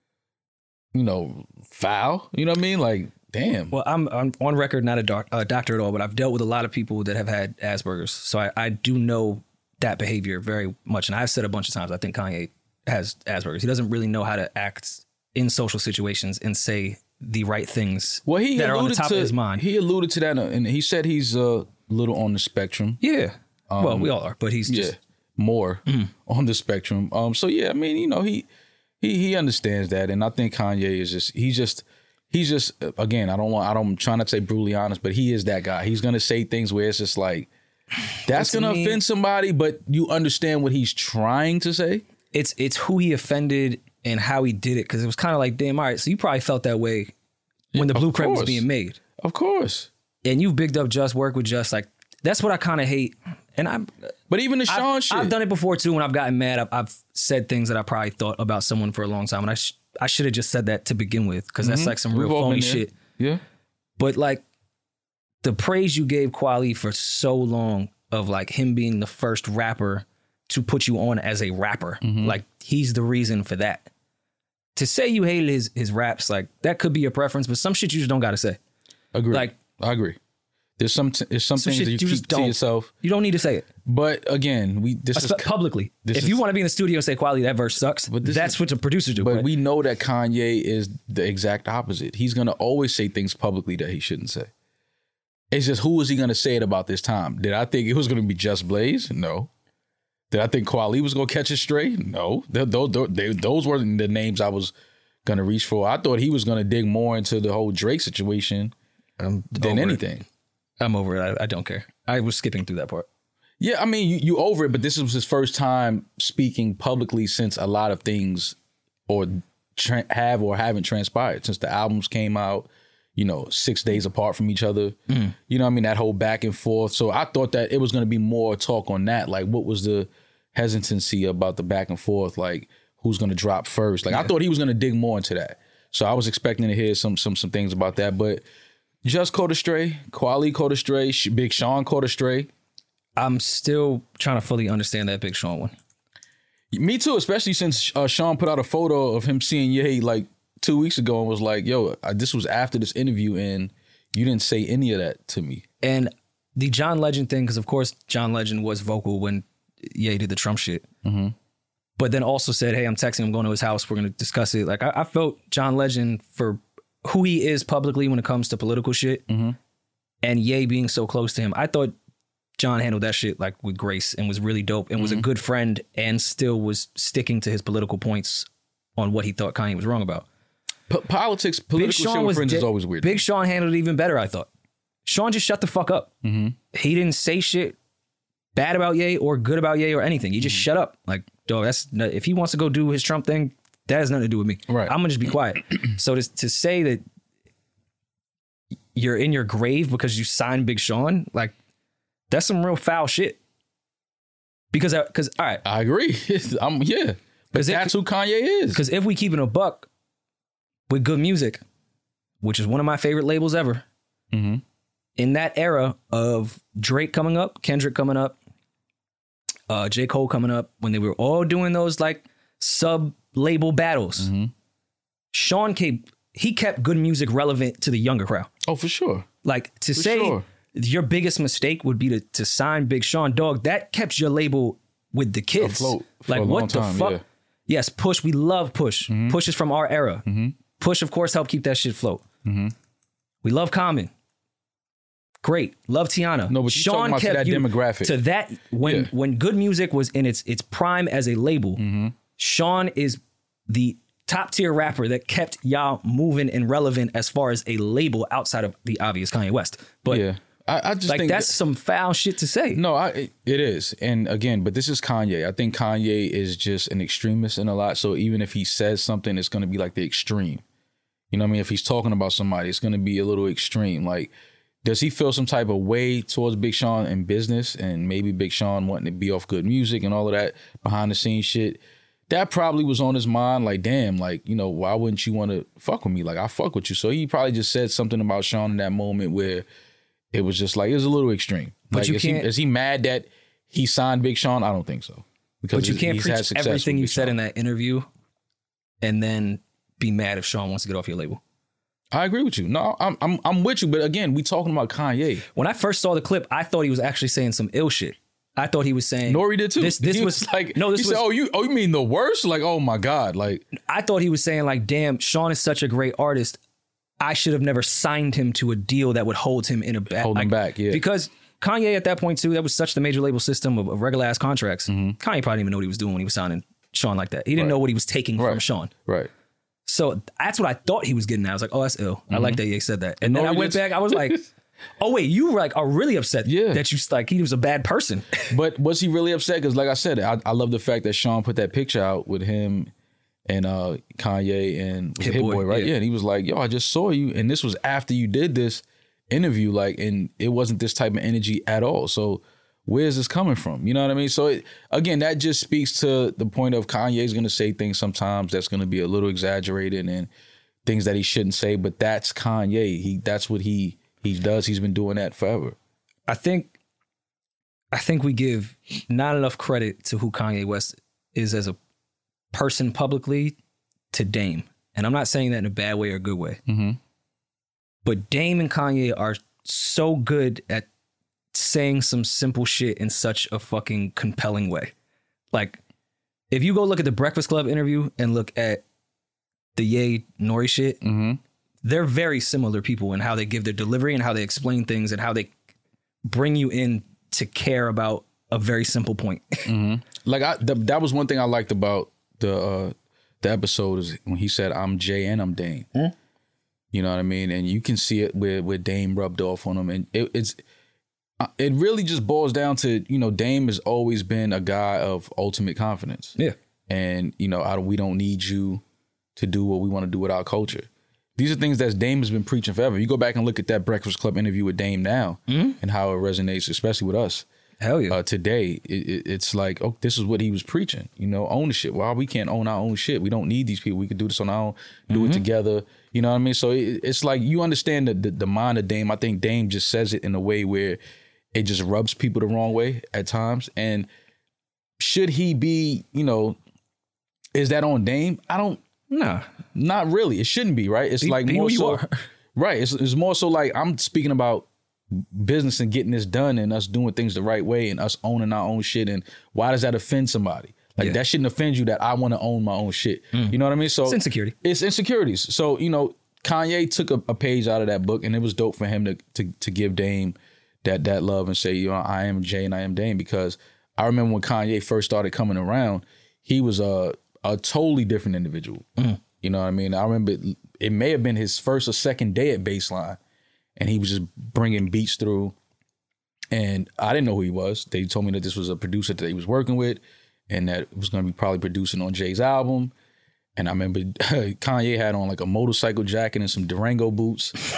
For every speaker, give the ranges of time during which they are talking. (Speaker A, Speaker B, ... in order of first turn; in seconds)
Speaker A: 0.9-3.8, 18.3-23.0, 23.7-24.1, 24.6-28.5, 29.0-37.5, 38.2-42.0, 47.7-48.6, 49.2-49.9, 54.3-55.4, 61.6-63.4, 72.0-72.4, 79.1-80.2, 80.8-82.9, 83.8-85.5, 86.0-86.4, 88.1-88.6, 89.2-94.5, 95.5-99.5, 100.3-104.7, 105.2-108.7, 109.5-110.2, 113.6-118.6, 119.1-138.4, 139.0-142.5, 146.7-155.6, 161.0-161.3, 169.3-169.6, 175.0-175.3, 180.9-183.2, 186.2-186.6, 194.7-195.0, 205.6-208.8, 214.3-214.6, 224.2-224.5, 228.6-229.3, 229.9-230.4, 235.6-237.2, 239.1-239.4, 240.3-240.6, 242.4-242.7, 246.5-248.2, 248.8-249.1, 251.8-252.2, 260.1-261.5, 262.7-270.6, 271.3-274.3, 274.8-289.7, 290.3-297.4, 302.1-305.4, 309.3-313.7, 320.2-321.0, 324.9-325.2, 328.4-329.3, 332.3-332.6, 333.2-334.4, 336.4-336.8, 338.5-342.9, 343.5-360.3, 360.9-365.8, 376.7-377.0, 391.0-391.4, 399.7-405.9, 406.9-410.6, 411.4-416.4, 416.9-418.8, 419.4-427.5, 428.1-441.0, 441.5-444.1, 445.0-446.6, 447.5-448.8, 449.8-452.0, 452.6-478.9, 479.4-483.2, 483.8-485.6, 486.5-492.9, 493.6-497.6
Speaker B: 3.7-19.6, 23.0-24.9, 38.3-39.0, 42.3-47.1, 47.8-49.0, 50.2-53.9, 54.7-62.9, 64.0-64.4, 65.4-73.9, 74.8-78.6, 81.6-83.7, 85.1-89.5, 109.2-110.0, 110.8-113.1, 125.1-125.3, 143.2-145.7, 155.8-160.8, 162.0-169.2, 170.2-171.9, 172.6-180.3, 181.8-184.5, 185.1-186.1, 186.7-187.8, 188.6-197.0, 198.9-201.5, 202.3-203.4, 204.7-205.6, 207.5-207.9, 208.7-209.9, 210.9-211.6, 212.4-213.8, 215.2-218.4, 219.7-224.3, 225.3-228.5, 229.4-240.2, 240.8-242.2, 243.4-244.1, 245.4-251.8, 252.4-260.2, 261.1-262.8, 291.9-292.5, 295.7-298.1, 299.0-301.4, 305.6-311.2, 313.8-316.6, 317.2-328.9, 329.9-334.4, 335.0-338.5, 345.2-345.9, 366.3-366.7, 367.9-371.8, 372.5-373.6, 374.1-376.6, 378.1-380.9, 381.5-384.9, 385.5-385.8, 386.5-388.8, 389.8-391.0, 391.8-395.5, 396.2-399.7, 425.5-425.8, 427.8-428.2, 435.1-435.4, 449.1-449.5, 451.2-452.1, 463.3-464.6